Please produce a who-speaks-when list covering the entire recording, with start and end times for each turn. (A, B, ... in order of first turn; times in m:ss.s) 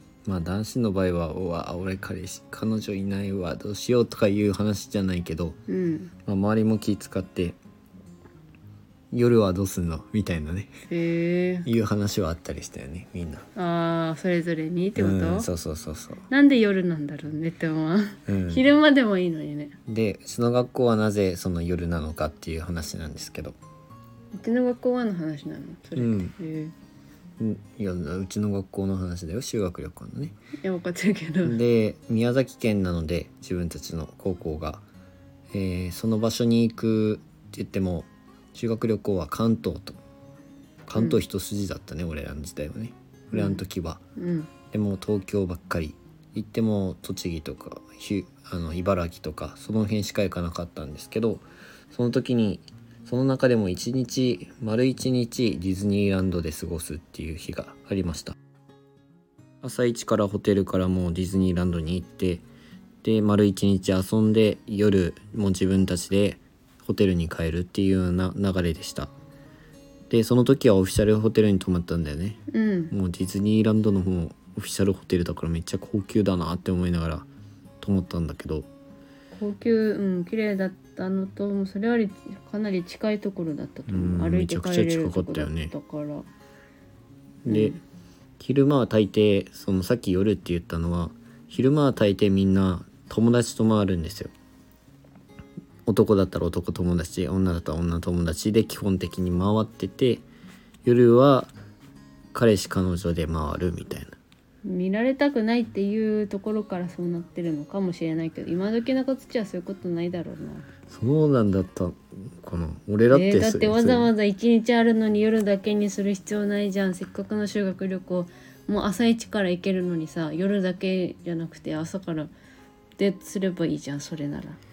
0:00.2-0:05.6 A
0:05.7-0:06.1 B
0:06.3-0:07.6 A
0:09.1-0:10.7 A
0:10.9-0:11.7 B
0:11.7-0:13.5 A
0:13.6-0:15.5 B
0:15.0-0:16.2 A
0:16.3-0:19.7 B
0:18.3-0:18.6 A
0:19.9-0:23.6 A
0:24.4-0:26.7 B
0:26.0-0:26.4 A
0:27.4-0:30.4 A
0:30.6-0:31.6 B
0:31.4-0:34.8 A
0:35.5-0:40.0 A
0:40.9-0:44.0 A
0:41.0-0:41.2 B
0:43.3-0:43.6 B
0:44.2-0:44.5 B
0:44.7-0:58.4 A
0:59.6-1:02.4 A
1:03.0-1:09.1 A
1:10.1-1:12.4 A
1:12.5-1:12.9 B
1:12.9-1:17.3 A
1:17.8-1:18.7 A
1:19.3-1:26.2 B
1:23.9-1:25.7 A
1:27.4-1:27.8 A
1:27.5-1:27.8 B
1:28.4-1:34.3 A
1:35.9-1:40.2 A
1:40.8-1:41.6 A
1:42.3-1:44.2 A
1:44.6-1:50.7 B
1:50.9-1:54.1 A
1:53.1-2:02.3 B
2:03.0-2:04.6 B